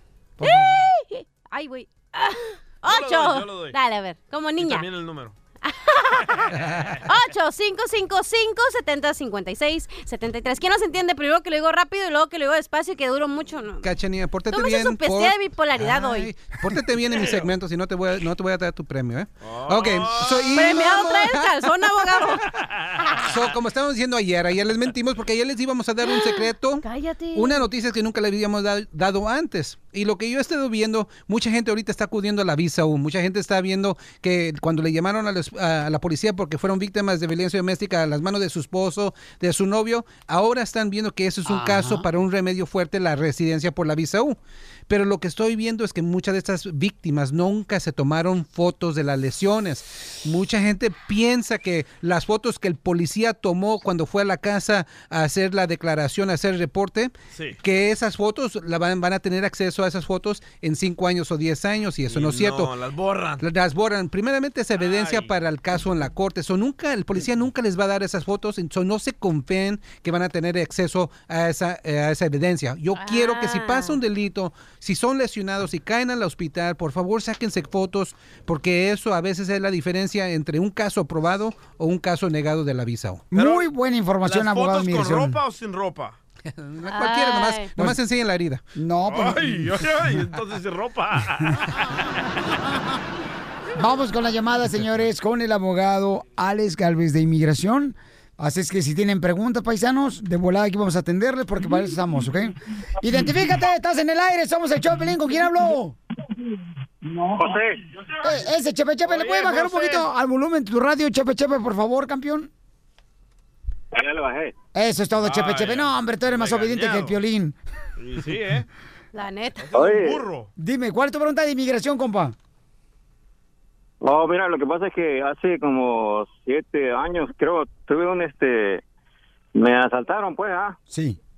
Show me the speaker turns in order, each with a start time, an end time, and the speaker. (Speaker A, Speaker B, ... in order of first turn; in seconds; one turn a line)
Speaker A: 0.4-0.8
Speaker B: 0.4-4.9
Speaker C: 2.8-3.8
Speaker C: 4.6-5.3
Speaker B: 5.6-6.5
Speaker D: 6.5-7.1
Speaker B: 7.1-13.9
Speaker D: 13.8-21.6
Speaker B: 14.5-16.4
Speaker C: 19.4-20.7
Speaker B: 20.5-22.5
Speaker D: 23.3-44.4
Speaker B: 26.0-27.6
Speaker A: 41.4-42.0
Speaker D: 44.9-57.1
Speaker C: 57.3-57.6
Speaker D: 57.6-62.7
Speaker C: 62.1-63.4
Speaker D: 63.4-83.2
Speaker C: 64.8-65.3
Speaker B: 72.9-74.0
Speaker A: 83.3-85.4
Speaker C: 83.3-83.7
Speaker C: 84.2-86.2
Speaker D: 86.6-88.6
Speaker B: 86.9-87.7
Speaker A: 88.7-89.8
Speaker C: 89.1-91.7
Speaker A: 93.8-106.0
Speaker E: 107.4-107.7
Speaker A: 108.2-112.5
Speaker C: 109.1-110.0
Speaker E: 114.0-114.5
Speaker A: 114.7-117.5
Speaker C: 115.2-117.1
Speaker C: 118.0-118.7
Speaker B: 119.1-119.7
Speaker C: 119.6-120.5
Speaker E: 119.8-120.1
Speaker A: 120.6-122.3
Speaker E: 124.0-128.8
Speaker E: 129.5-130.7
Speaker A: 130.9-131.2